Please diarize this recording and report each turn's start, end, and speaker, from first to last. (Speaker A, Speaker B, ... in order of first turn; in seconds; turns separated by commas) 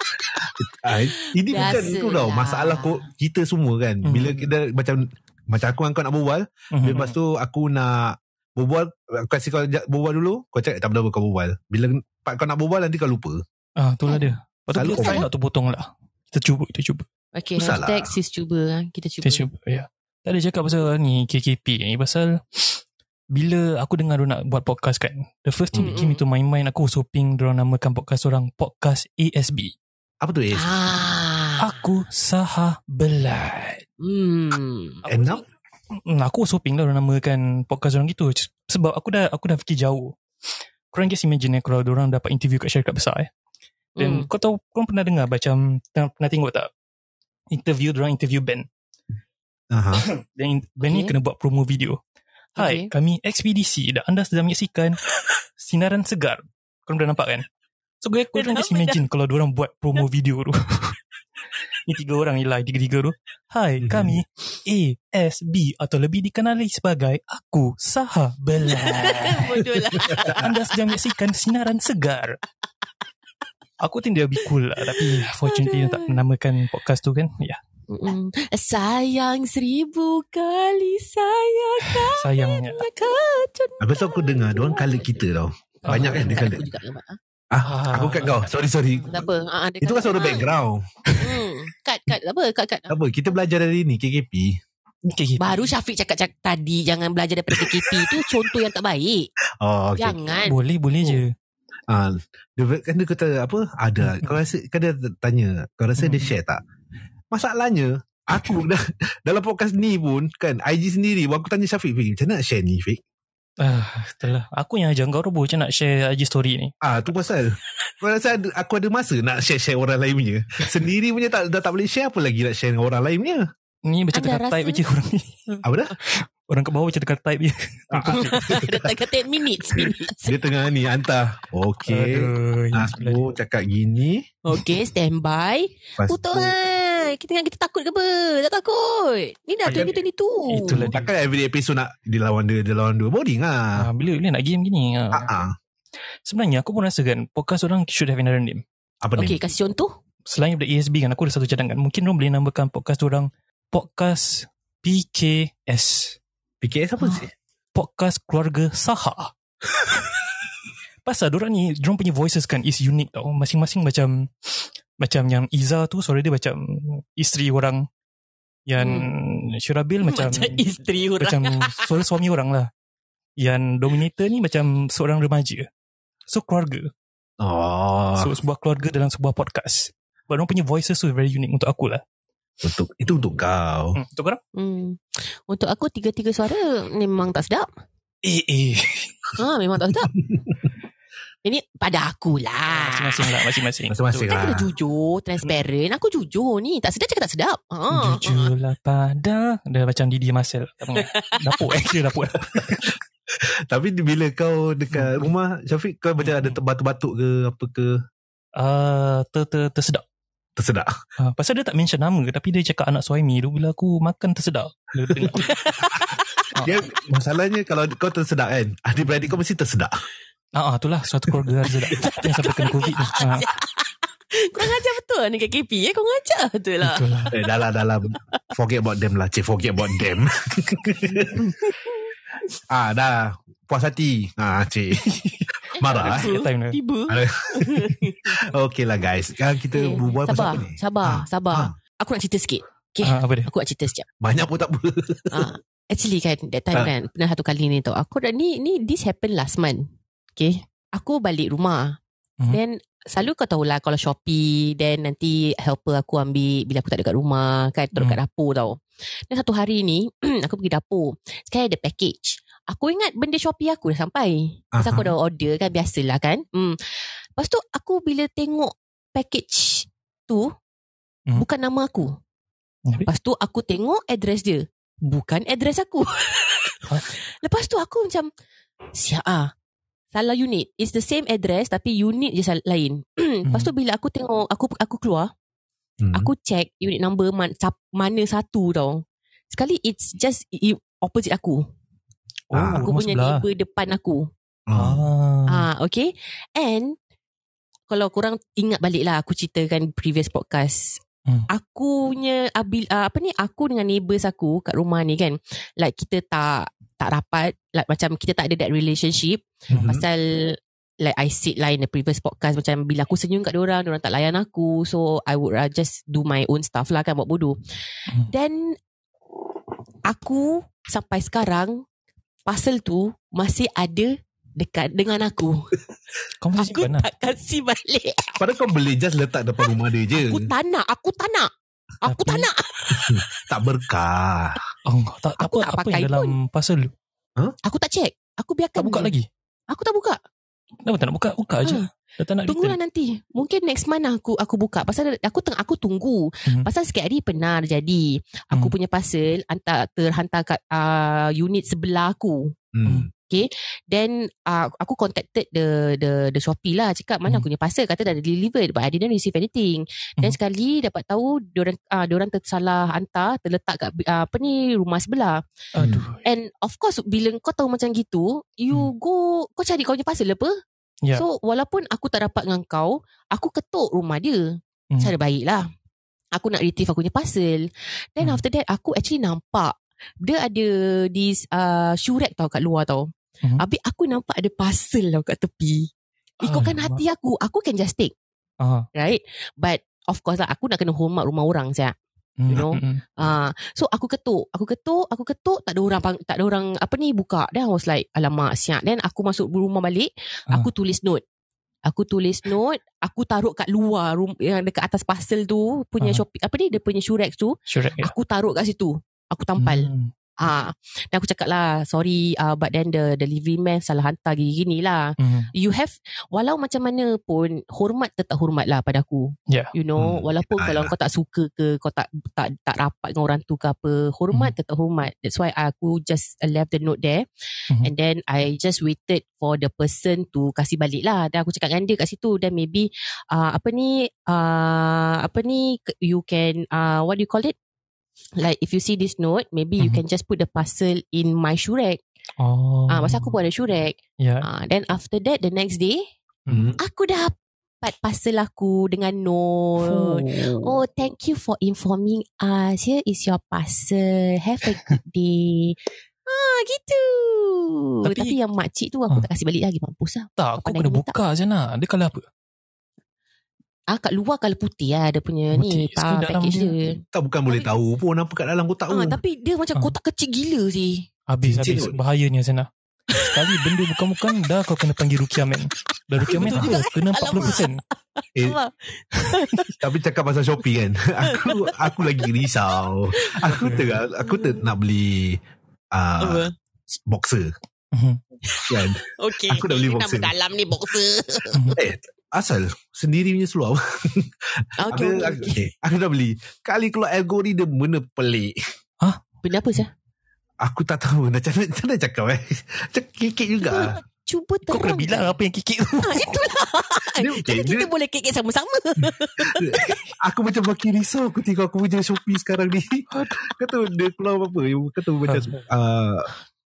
Speaker A: 0.3-13.4, Speaker B: 0.9-3.0, Speaker C: 4.0-4.5, Speaker C: 6.7-7.2, Speaker C: 13.8-17.0, Speaker A: 14.7-15.2, Speaker B: 14.9-15.2, Speaker B: 17.3-19.4, Speaker A: 17.6-18.1, Speaker C: 19.2-22.8, Speaker C: 23.3-29.7, Speaker A: 25.7-26.0, Speaker B: 25.8-26.2, Speaker A: 30.2-30.7, Speaker B: 30.5-31.8, Speaker C: 31.6-33.8, Speaker B: 34.0-35.0, Speaker C: 35.0-40.1, Speaker A: 35.1-35.4, Speaker C: 40.9-43.3, Speaker B: 44.0-44.3, Speaker C: 44.0-46.7, Speaker C: 47.5-48.7, Speaker A: 49.7-50.0, Speaker C: 50.0-52.0, Speaker B: 50.8-51.1, Speaker B: 52.6-52.9, Speaker C: 52.6-55.0, Speaker C: 55.6-57.5, Speaker C: 58.0-61.0, Speaker B: 58.3-59.0, Speaker C: 61.8-72.4, Speaker A: 63.8-64.2, Speaker B: 68.7-70.6, Speaker C: 73.8-77.6, Speaker B: 74.9-76.2, Speaker B: 77.9-85.1, Speaker C: 82.0-82.8, Speaker A: 83.8-86.7, Speaker B: 85.8-87.2, Speaker C: 85.8-86.4, Speaker A: 87.5-89.2, Speaker C: 87.6-88.5, Speaker B: 89.0-90.5, Speaker A: 89.8-90.9, Speaker B: 91.2-92.9, Speaker A: 92.9-94.6, Speaker C: 95.0-95.7, Speaker B: 95.4-99.3, Speaker A: 97.6-98.2, Speaker A: 99.6-100.2, Speaker B: 100.0-101.2, Speaker C: 100.5-101.3, Speaker A: 101.9-106.6, Speaker C: 104.0-104.3, Speaker C: 106.0-106.3, Speaker A: 107.3-113.0, Speaker C: 113.6-116.7, Speaker A: 116.8-123.4, Speaker C: 123.8-125.4, Speaker B: 124.1-124.8, Speaker A: 125.6-126.0, Speaker C: 126.0-128.6, Speaker A: 127.9-128.9, Speaker B: 128.2-130.4, Speaker A: 129.8-134.2, Speaker C: 131.8-133.2, Speaker B: 134.4-140.8, Speaker A: 136.0-136.6, Speaker A: 139.6-139.9, Speaker C: 139.7-139.9, Speaker C: 140.5-141.1, Speaker A: 140.7-143.9, Speaker C: 143.8-145.3, Speaker A: 145.1-145.5, Speaker C: 146.2-148.6, Speaker A: 149.0-149.4, Speaker B: 149.2-149.9, Speaker C: 150.3-156.2, Speaker A: 156.6-157.3, Speaker C: 157.7-159.3, Speaker C: 161.0-167.9, Speaker C: 168.7-170.6, Speaker B: 168.8-169.1, Speaker B: 170.0-171.9, Speaker C: 171.2-172.7, Speaker C: 173.4-175.7, Speaker C: 176.3-176.9, Speaker A: 177.4-178.3, Speaker C: 178.2-182.0, Speaker A: 182.6-184.0, Speaker C: 183.9-184.4, Speaker B: 184.5-187.7, Speaker C: 188.2-189.4, Speaker B: 189.4-190.1, Speaker A: 190.3-190.5, Speaker B: 191.4-193.3, Speaker C: 192.7-194.4, Speaker A: 193.9-194.7, Speaker B: 194.3-198.5, Speaker C: 197.9-202.9, Speaker B: 201.0-201.5, Speaker A: 202.8-208.0, Speaker C: 204.9-205.2, Speaker C: 206.2-206.6, Speaker C: 208.6-210.0, Speaker A: 210.6-210.9, Speaker C: 211.2-215.7, Speaker B: 215.4-216.5, Speaker C: 216.5-216.8, Speaker A: 216.6-219.9, Speaker C: 220.5-223.4, Speaker B: 221.9-227.3, Speaker C: 226.8-227.3, Speaker A: 227.3-231.4, Speaker B: 231.2-232.1, Speaker A: 232.7-235.1, Speaker C: 235.1-236.8, Speaker A: 235.7-236.3, Speaker B: 235.8-238.4, Speaker A: 237.1-241.7, Speaker B: 239.7-244.1, Speaker C: 243.0-243.5, Speaker A: 244.2-245.5, Speaker B: 245.3-252.0, Speaker B: 252.5-266.8, Speaker A: 264.7-265.1, Speaker B: 267.4-270.5, Speaker B: 271.4-272.2, Speaker B: 273.0-278.3, Speaker B: 278.9-279.5, Speaker B: 280.1-285.3, Speaker C: 283.5-283.7, Speaker A: 286.0-286.3, Speaker B: 286.1-291.6, Speaker C: 292.5-293.4, Speaker A: 292.5-292.9, Speaker B: 292.8-294.3, Speaker A: 294.7-295.0, Speaker C: 294.7-295.6, Speaker B: 295.5-296.9, Speaker B: 297.9-317.6, Speaker A: 309.7-310.0, Speaker B: 318.3-318.8, Speaker B: 320.1-321.8, Speaker B: 322.4-325.6, Speaker C: 326.4-327.1, Speaker B: 326.6-328.4, Speaker A: 328.4-330.5, Speaker B: 330.1-331.5, Speaker B: 332.0-333.3, Speaker C: 332.0-332.5, Speaker A: 332.9-334.6, Speaker C: 334.9-336.9, Speaker B: 335.4-336.4, Speaker B: 337.6-339.1, Speaker C: 338.8-339.3, Speaker B: 339.7-340.2, Speaker C: 340.8-342.8, Speaker B: 342.5-352.5, Speaker A: 352.7-353.1, Speaker B: 353.3-365.4, Speaker C: 365.7-366.2, Speaker A: 365.8-366.1, Speaker B: 366.2-370.5, Speaker B: 371.1-374.4, Speaker B: 375.0-375.6, Speaker B: 376.3-385.9, Speaker C: 386.4-387.0, Speaker B: 386.4-388.1, Speaker C: 388.6-388.9, Speaker B: 388.9-391.9, Speaker C: 392.4-393.0, Speaker B: 392.5-401.2, Speaker B: 401.9-427.2, Speaker C: 407.7-408.1, Speaker C: 409.6-410.1, Speaker C: 415.2-415.5, Speaker A: 420.0-420.9, Speaker B: 427.8-437.6, Speaker B: 438.4-442.0, Speaker C: 442.4-443.3, Speaker B: 442.9-446.1, Speaker C: 444.2-444.5, Speaker C: 446.4-446.7, Speaker A: 446.5-446.8, Speaker B: 446.8-455.8, Speaker C: 449.8-450.8, Speaker B: 456.3-461.1, Speaker C: 458.0-458.4, Speaker C: 460.4-462.2, Speaker B: 463.9-467.7, Speaker C: 465.5-466.7, Speaker A: 467.1-469.2, Speaker B: 468.9-471.1, Speaker C: 471.3-477.8, Speaker A: 471.4-472.0, Speaker B: 473.1-473.5, Speaker B: 476.2-479.7, Speaker A: 476.3-476.7, Speaker A: 479.8-485.4, Speaker B: 481.3-482.3, Speaker B: 483.1-483.4, Speaker C: 483.4-483.9, Speaker B: 484.2-484.7, Speaker A: 485.9-486.5, Speaker B: 486.2-486.5, Speaker A: 487.1-487.5, Speaker C: 487.9-488.2, Speaker B: 488.5-491.8, Speaker A: 488.7-490.3, Speaker C: 491.5-491.8, Speaker A: 491.8-498.6, Speaker B: 494.8-495.7, Speaker B: 499.4-499.9, Speaker A: 500.6-504.0, Speaker B: 503.6-505.4, Speaker C: 504.7-506.4, Speaker B: 506.0-510.0, Speaker A: 507.2-507.9, Speaker A: 509.5-516.3, Speaker C: 515.3-515.6